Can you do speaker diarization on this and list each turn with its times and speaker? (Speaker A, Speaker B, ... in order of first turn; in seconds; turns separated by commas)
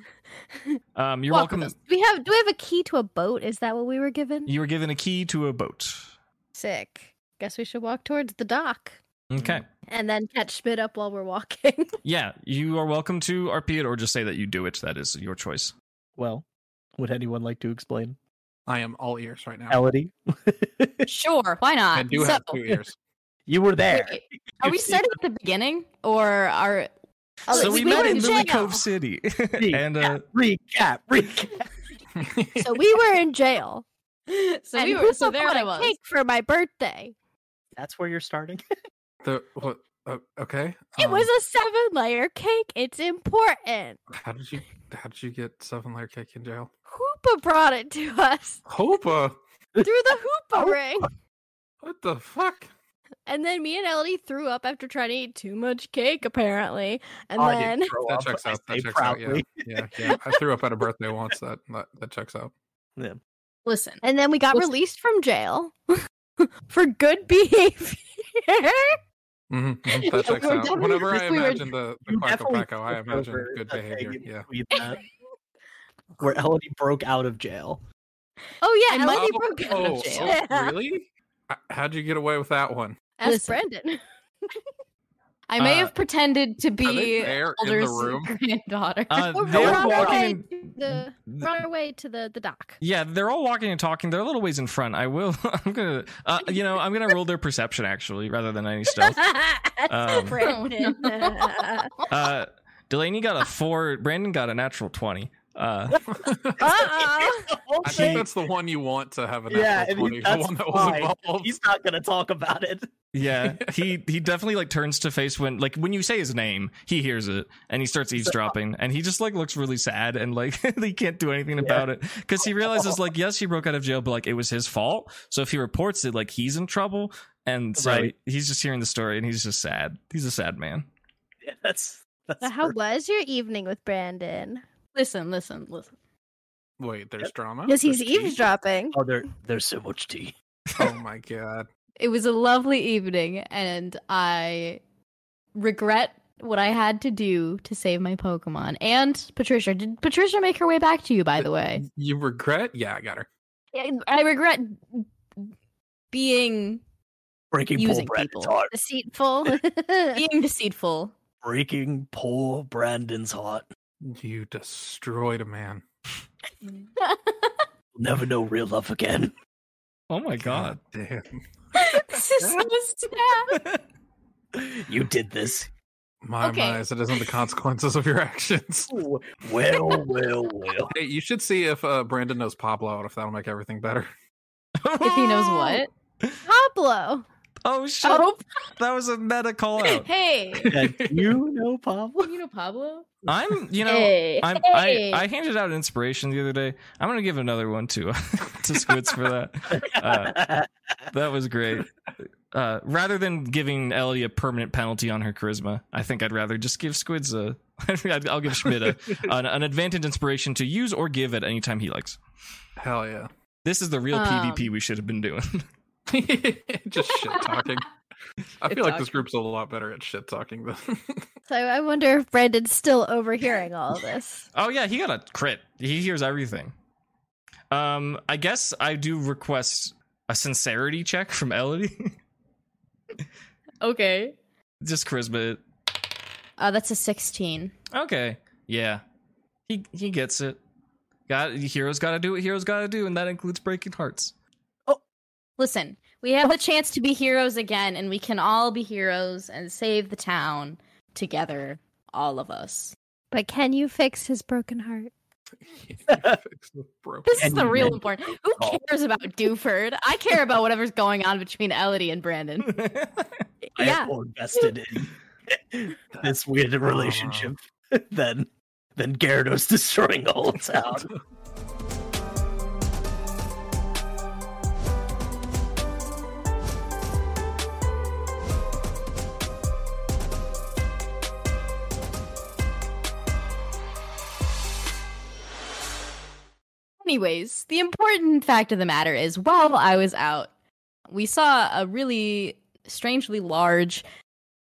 Speaker A: 0.9-1.7, Speaker B: 1.3-4.5, Speaker A: 4.5-6.1, Speaker B: 6.5-9.0, Speaker A: 9.3-9.6, Speaker B: 9.9-11.9, Speaker A: 12.0-15.7, Speaker C: 16.2-16.4, Speaker C: 17.0-18.2, Speaker D: 18.7-19.8, Speaker C: 19.7-21.1, Speaker E: 21.1-22.8, Speaker D: 21.9-22.9, Speaker C: 23.5-25.1, Speaker E: 23.9-26.9, Speaker B: 27.5-28.8, Speaker E: 27.5-28.7, Speaker A: 27.5-30.2, Speaker C: 29.6-31.7, Speaker D: 32.1-32.7, Speaker B: 32.6-33.9, Speaker E: 34.3-35.9, Speaker B: 34.8-37.1, Speaker C: 37.8-38.6, Speaker D: 39.2-41.3, Speaker B: 41.0-44.0, Speaker D: 44.1-46.7, Speaker B: 46.9-48.6, Speaker D: 48.6-49.4, Speaker B: 49.8-51.1, Speaker D: 51.8-52.7, Speaker B: 53.3-58.0, Speaker C: 57.4-60.2, Speaker D: 58.0-62.5, Speaker E: 63.6-64.7, Speaker B: 64.0-69.0, Speaker D: 69.5-74.5, Speaker E: 69.9-71.7, Speaker B: 70.0-71.6, Speaker C: 72.1-75.0, Speaker C: 76.2-77.8, Speaker B: 78.6-80.8, Speaker E: 78.9-80.4, Speaker D: 79.1-83.0, Speaker B: 83.2-84.0, Speaker E: 83.2-83.6, Speaker E: 85.5-89.7, Speaker A: 85.6-85.9, Speaker D: 86.8-88.3, Speaker A: 89.1-91.5, Speaker B: 89.3-92.8, Speaker C: 89.5-90.3, Speaker A: 92.8-99.3, Speaker B: 99.0-101.9, Speaker A: 99.9-100.4, Speaker E: 100.1-102.0, Speaker A: 102.1-106.0, Speaker D: 106.1-106.7, Speaker B: 106.6-107.6, Speaker C: 106.6-108.3, Speaker D: 107.8-111.5, Speaker C: 109.5-112.9, Speaker A: 113.1-130.9, Speaker D: 113.4-113.7, Speaker C: 118.2-118.5, Speaker C: 121.6-121.9, Speaker C: 122.4-123.0, Speaker C: 127.8-128.1, Speaker C: 131.4-132.8, Speaker B: 132.4-134.6, Speaker E: 134.9-135.9, Speaker D: 136.8-138.4, Speaker B: 137.7-139.0, Speaker C: 138.9-140.3, Speaker D: 140.8-141.7, Speaker E: 142.0-144.8, Speaker E: 145.6-151.8, Speaker D: 151.8-153.3, Speaker E: 153.7-155.5, Speaker E: 156.1-156.8, Speaker C: 157.5-158.7, Speaker E: 157.7-158.5, Speaker B: 158.7-160.2, Speaker E: 160.1-161.1, Speaker C: 161.4-163.7, Speaker D: 164.0-165.8, Speaker E: 167.0-167.5, Speaker C: 168.0-169.3, Speaker A: 170.1-170.8, Speaker D: 170.5-171.4, Speaker E: 171.8-173.5, Speaker B: 171.9-173.4, Speaker A: 173.5-173.8, Speaker C: 174.5-175.7, Speaker D: 176.2-178.9, Speaker E: 176.4-176.8, Speaker C: 178.9-180.9, Speaker D: 180.9-184.1, Speaker A: 184.8-185.5, Speaker E: 185.0-185.9, Speaker B: 185.4-185.8, Speaker B: 186.4-187.2, Speaker A: 187.6-190.1, Speaker E: 188.0-188.4, Speaker E: 189.9-190.7, Speaker D: 190.6-191.3, Speaker C: 190.7-192.3, Speaker E: 192.2-193.1, Speaker A: 193.3-200.5, Speaker E: 193.8-195.2, Speaker D: 198.9-199.2, Speaker C: 199.7-200.7, Speaker A: 201.1-201.9, Speaker A: 202.5-212.2, Speaker D: 208.8-209.2, Speaker D: 212.8-213.3, Speaker A: 213.6-215.7, Speaker E: 214.1-214.7, Speaker D: 216.1-217.9, Speaker E: 217.1-217.7, Speaker D: 218.6-221.3, Speaker E: 218.7-219.1, Speaker B: 221.5-224.4, Speaker A: 224.5-226.7, Speaker A: 227.7-232.1, Speaker E: 233.8-234.4, Speaker A: 234.8-235.6, Speaker E: 236.6-237.7, Speaker A: 237.9-239.0, Speaker A: 239.7-240.6, Speaker A: 241.3-244.3, Speaker E: 245.6-252.9, Speaker B: 253.3-255.1, Speaker D: 255.7-257.9, Speaker C: 256.1-256.4, Speaker E: 257.2-262.8, Speaker C: 257.4-258.8, Speaker A: 262.6-263.3, Speaker B: 263.6-264.7, Speaker C: 263.8-271.1, Speaker D: 266.9-267.5, Speaker E: 287.0-290.5, Speaker E: 291.1-294.0